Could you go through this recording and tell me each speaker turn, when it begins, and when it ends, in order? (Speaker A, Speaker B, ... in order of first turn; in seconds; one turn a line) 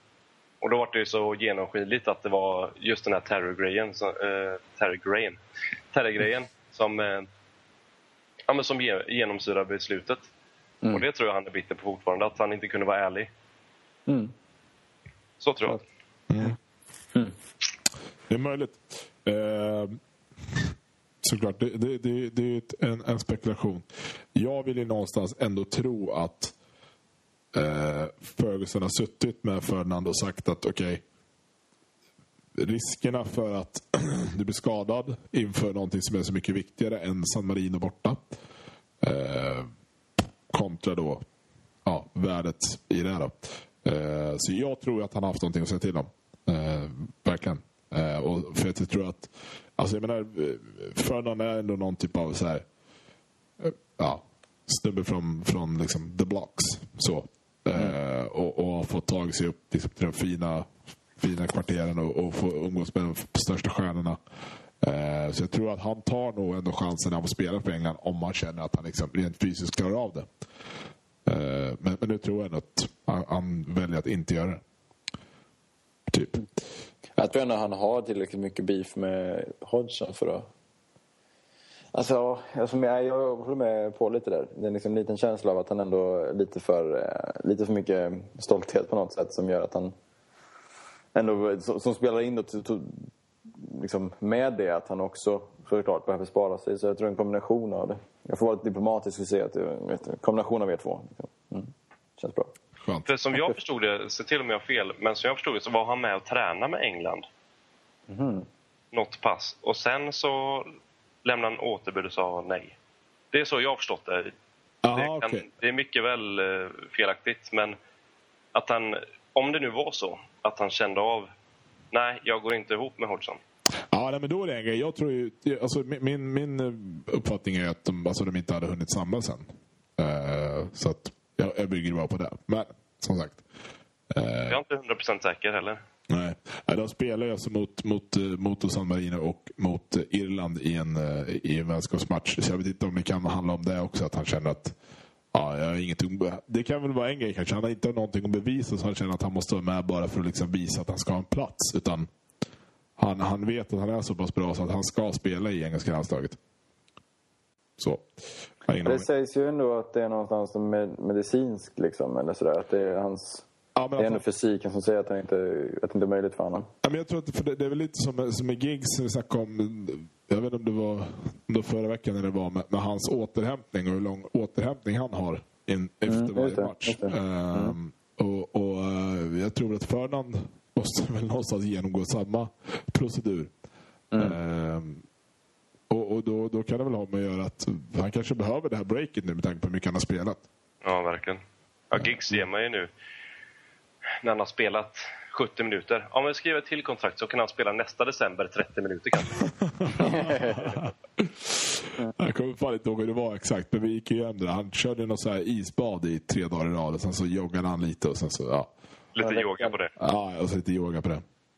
Speaker A: 0.6-5.4
Speaker A: 5.9-7.3
Speaker A: 8.5-10.3
Speaker A: 10.9-13.3
Speaker B: 14.1-14.3
Speaker A: 15.4-15.8
Speaker C: 16.3-16.6
Speaker C: 18.3-20.0
Speaker C: 21.2-26.6
Speaker C: 27.5-31.0
Speaker C: 32.6-38.2
Speaker C: 39.0-39.7
Speaker C: 40.5-41.2
Speaker C: 41.8-52.6
Speaker C: 53.6-64.2
Speaker C: 64.8-70.3
Speaker C: 71.2-74.6
Speaker C: 76.1-76.5
Speaker B: 77.2-80.5
Speaker B: 81.9-89.9
Speaker B: 91.1-102.5
Speaker C: 102.8-103.1
Speaker A: 103.1-107.3
Speaker B: 108.1-108.5
Speaker A: 108.9-112.7
Speaker A: 113.3-114.3
Speaker C: 114.8-115.5
Speaker A: 114.9-117.8
Speaker A: 118.5-121.3
Speaker A: 121.9-123.4
Speaker C: 123.9-129.5
Speaker C: 130.0-133.4
Speaker C: 134.1-134.6
Speaker A: 134.5-135.8
Speaker C: 136.1-144.7
Speaker C: 145.3-152.1
Speaker C: 153.0-156.4
Speaker C: 157.8-158.1
Speaker C: 158.6-159.1
Speaker B: 158.8-163.4
Speaker C: 163.8-164.2
Speaker B: 164.0-166.7
Speaker C: 166.8-183.5
Speaker B: 176.1-177.8
Speaker B: 184.1-184.4
Speaker C: 184.2-185.1
Speaker C: 185.9-190.4
Speaker A: 190.8-192.9
Speaker A: 194.2-199.5
Speaker C: 199.7-208.7
Speaker B: 200.0-200.7
Speaker A: 209.1-209.9
Speaker B: 209.2-209.7
Speaker C: 210.0-211.2